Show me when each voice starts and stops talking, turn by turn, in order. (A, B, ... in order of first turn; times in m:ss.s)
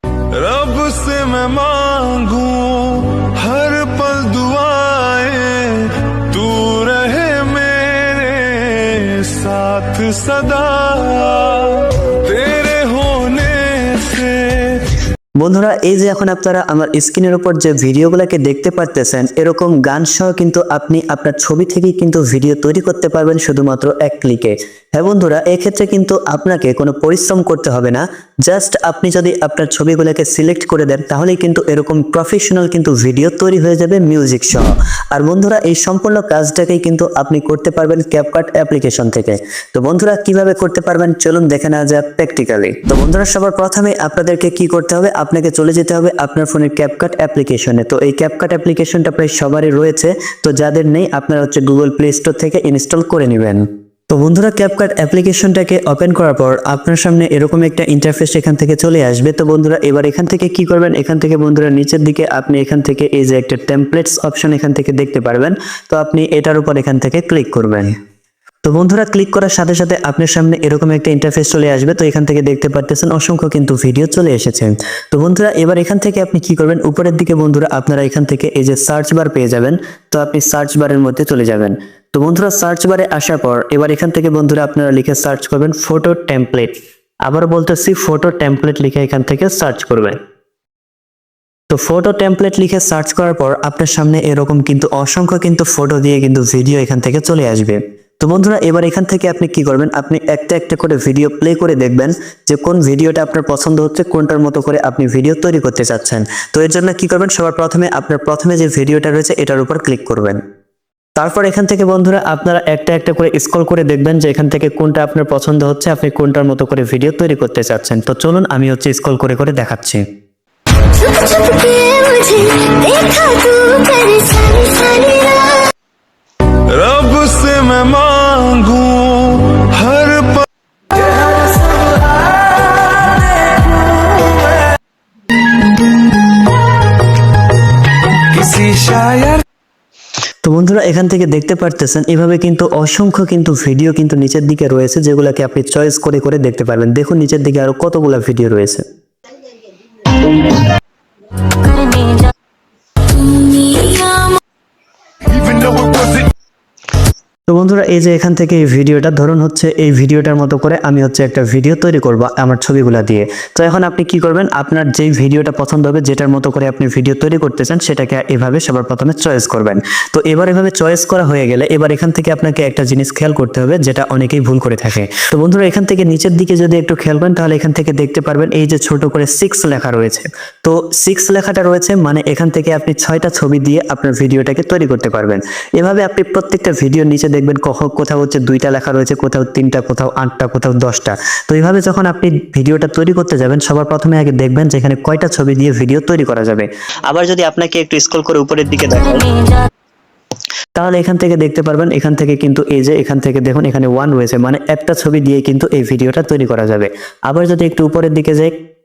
0:00.3-0:14.9 A
0:15.4-1:07.9 B
1:08.6-1:26.7 B
1:27.3-1:30.2 B
1:31.7-1:50.4 B
1:51.2-2:00.0 B
2:00.9-2:05.7 C
2:06.5-2:10.5 A
2:18.3-2:19.4 A
2:20.4-2:28.8 B
2:31.6-2:32.2 C
2:33.2-2:34.4 C
2:35.4-2:36.3 A
2:37.5-3:19.6 B
3:20.8-3:28.5 B